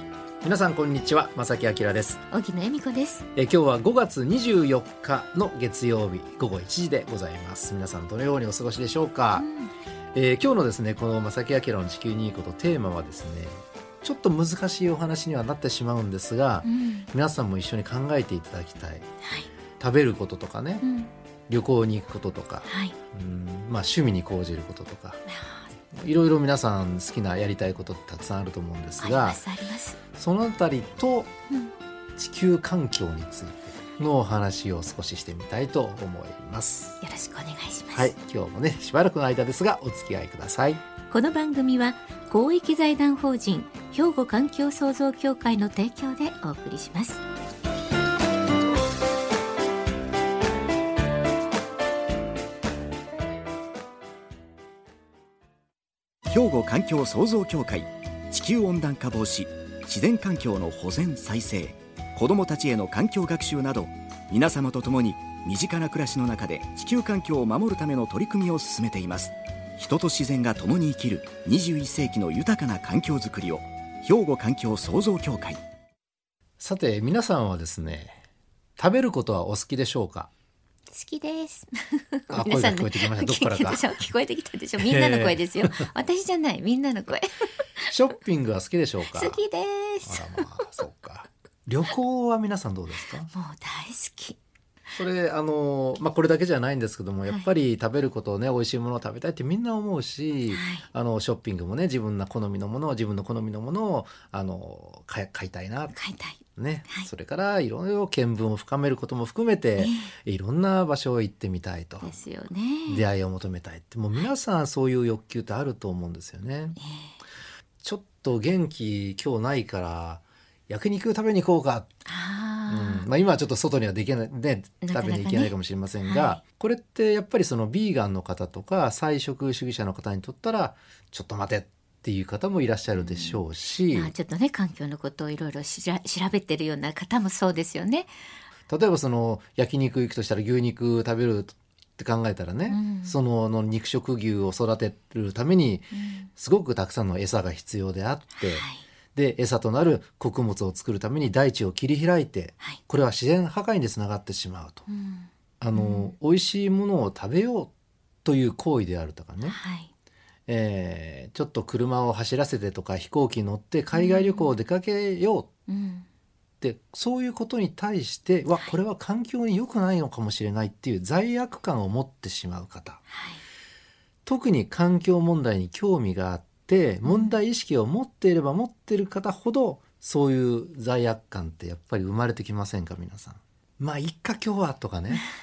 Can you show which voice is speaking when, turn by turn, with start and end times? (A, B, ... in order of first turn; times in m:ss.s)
0:00.4-0:02.2 A
0:02.3-0:03.3 B
0:03.3-0:09.5 A
0:09.3-0:09.7 B
0:10.1-0:19.1 A
0:16.6-0:17.1 B
0:19.2-0:19.5 B
0:19.8-0:20.8 A
0:20.8-0:21.1 B
0:21.5-0:25.2 A
0:22.6-0:23.0 B
0:25.3-0:25.7 B
0:25.9-0:29.4 A
0:29.0-0:30.0 B
0:30.1-0:31.3 A
0:32.2-0:37.0 A
0:37.0-0:38.1 B
0:37.9-0:40.8 A
0:41.1-0:47.2 B
0:56.3-1:15.6 C
1:16.6-1:18.2 A
1:18.8-1:20.3 A
1:20.9-1:27.9 B
1:22.3-1:24.1 A
1:24.8-1:25.9 A
1:27.9-1:29.4 A
1:29.1-1:30.7 B
1:30.0-1:33.3 A
1:33.3-1:34.4 B
1:34.9-1:45.9 A
1:40.5-1:40.8 B
1:45.9-1:47.1 B
1:46.5-1:52.1 A
1:49.8-1:50.1 B
1:52.0-1:53.0 B
1:52.9-1:56.8 A
1:56.8-1:57.2 B
1:57.8-2:01.9 A
2:02.0-2:03.1 B
2:02.7-2:14.1 A
2:04.8-2:06.4 B
2:13.0-2:18.1 B
2:18.7-2:34.8 A
2:22.7-2:23.1 B
2:25.9-2:26.3 B
2:28.4-2:28.8 B
2:34.9-2:36.1 B
2:35.6-2:37.7 A
2:38.2-2:39.6 A
2:39.4-2:39.9 B
2:40.5-2:45.5 A
2:43.9-2:44.5 B
2:45.7-2:46.0 B
2:46.6-2:53.0 A
2:53.1-2:53.4 B
2:54.2-3:05.3 A
2:57.0-2:57.3 B